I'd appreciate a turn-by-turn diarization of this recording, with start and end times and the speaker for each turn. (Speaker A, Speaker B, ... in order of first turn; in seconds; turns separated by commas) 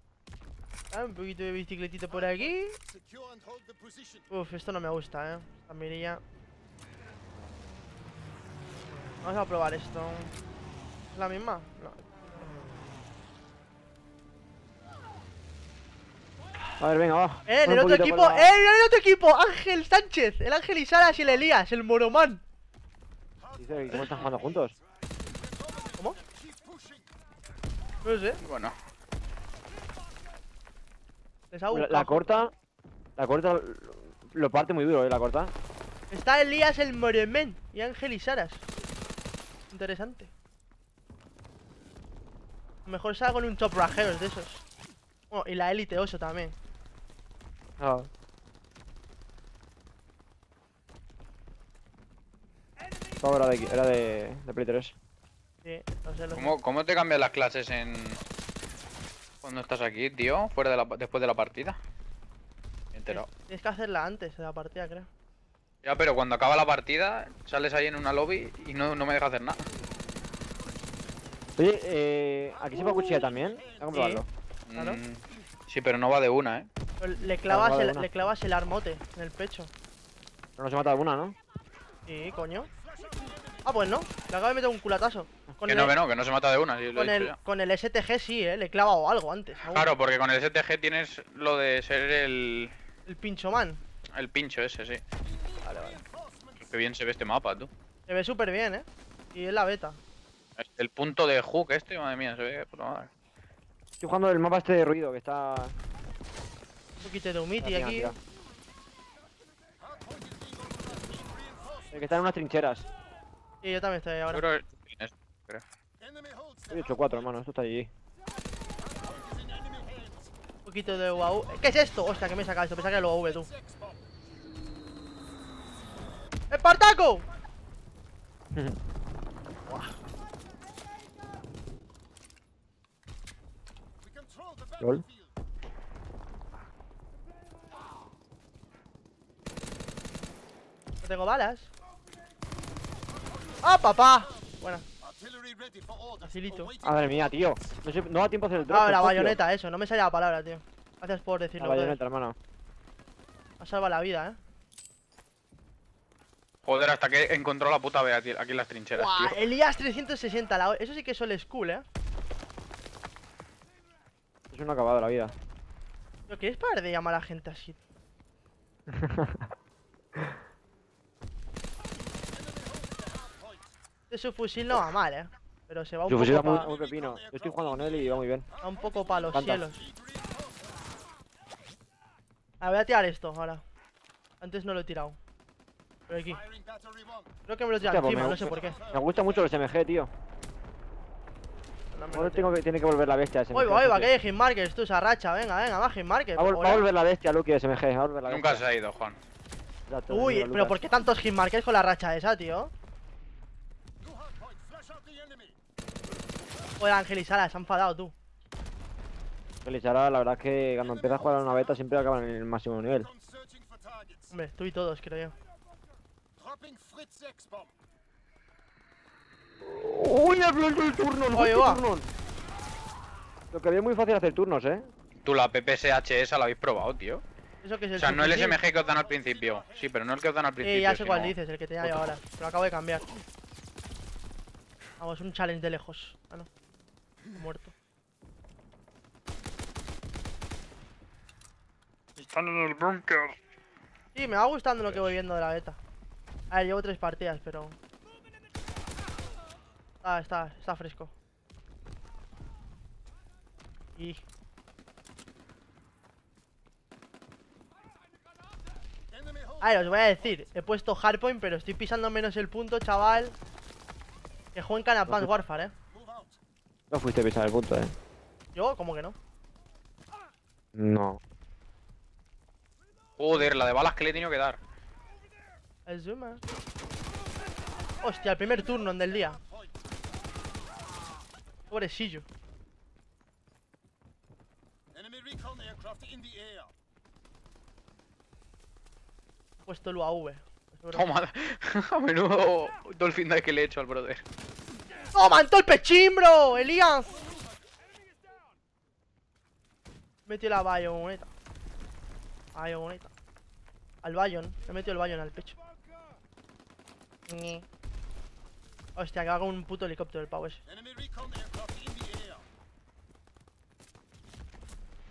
Speaker A: 0.9-2.8, Speaker A: 4.3-6.2, Speaker A: 9.2-10.3, Speaker A: 11.1-12.2, Speaker B: 16.8-18.5, Speaker A: 17.5-22.4, Speaker B: 23.6-24.8, Speaker A: 25.9-26.2, Speaker A: 28.0-28.4, Speaker C: 28.4-28.8, Speaker A: 31.5-32.3, Speaker B: 31.7-32.5, Speaker B: 33.2-35.5, Speaker A: 36.1-38.6, Speaker A: 39.7-40.3, Speaker A: 42.9-44.6, Speaker A: 45.3-46.6, Speaker B: 47.8-48.1, Speaker B: 53.2-55.0, Speaker A: 55.6-56.6, Speaker C: 56.3-58.2, Speaker C: 59.4-61.8, Speaker C: 62.9-63.3, Speaker A: 63.1-65.1, Speaker C: 65.8-69.6, Speaker B: 71.6-74.3, Speaker A: 72.8-73.2, Speaker A: 73.9-74.2, Speaker C: 74.7-76.7, Speaker A: 74.8-75.0, Speaker A: 77.0-79.7, Speaker B: 77.5-78.1, Speaker B: 80.6-81.4, Speaker A: 82.1-82.7, Speaker A: 83.6-86.0, Speaker C: 85.7-87.3, Speaker A: 87.0-89.9, Speaker C: 89.7-92.7, Speaker A: 93.1-93.8, Speaker C: 94.2-95.0, Speaker A: 95.6-96.0, Speaker C: 96.6-97.7, Speaker A: 98.1-100.0, Speaker C: 100.6-103.1, Speaker B: 104.0-105.8, Speaker A: 107.0-108.2, Speaker B: 107.6-108.2, Speaker B: 111.9-112.9, Speaker A: 113.6-114.4, Speaker C: 114.3-115.6, Speaker B: 116.7-117.9, Speaker A: 120.7-123.5, Speaker A: 126.5-127.3, Speaker A: 129.7-130.0, Speaker B: 134.8-135.1, Speaker A: 141.0-141.7, Speaker A: 143.6-144.9, Speaker A: 146.2-146.7, Speaker B: 146.8-149.4, Speaker A: 148.7-152.0, Speaker B: 151.6-152.4, Speaker A: 153.6-154.4, Speaker C: 156.7-159.4, Speaker A: 158.9-161.9, Speaker B: 164.5-165.3, Speaker A: 166.3-167.8, Speaker B: 168.9-169.5, Speaker A: 174.1-176.7, Speaker B: 176.1-178.5, Speaker A: 178.6-179.9, Speaker B: 179.3-179.6, Speaker A: 182.6-183.6, Speaker A: 184.4-185.2, Speaker A: 186.1-186.5, Speaker A: 187.5-188.8, Speaker B: 187.8-190.1, Speaker A: 191.9-192.5, Speaker B: 192.1-194.1, Speaker A: 193.5-196.8, Speaker B: 196.4-198.6, Speaker C: 198.3-199.2, Speaker B: 199.9-200.8, Speaker A: 200.1-202.7, Speaker A: 206.8-208.1, Speaker B: 209.7-213.1, Speaker A: 214.3-215.3, Speaker B: 219.6-222.1, Speaker A: 221.3-221.8, Speaker B: 223.5-224.9, Speaker C: 225.2-227.2, Speaker A: 227.6-228.6, Speaker C: 228.0-232.0, Speaker A: 230.6-233.1, Speaker A: 235.0-236.5, Speaker A: 237.3-237.7, Speaker C: 242.2-243.4, Speaker A: 244.2-245.8, Speaker A: 246.5-247.8, Speaker A: 250.0-251.1, Speaker A: 254.0-254.2, Speaker A: 259.6-263.4, Speaker A: 264.6-265.7, Speaker B: 266.9-267.9, Speaker A: 268.6-269.2, Speaker B: 270.8-271.2, Speaker C: 273.2-274.6, Speaker A: 275.9-276.4, Speaker A: 278.0-279.4, Speaker A: 281.7-282.3, Speaker A: 289.7-291.1, Speaker C: 290.9-294.2, Speaker A: 295.1-297.2, Speaker A: 300.3-301.3, Speaker A: 302.5-303.1, Speaker A: 304.0-305.6, Speaker A: 307.3-307.7, Speaker A: 309.0-310.6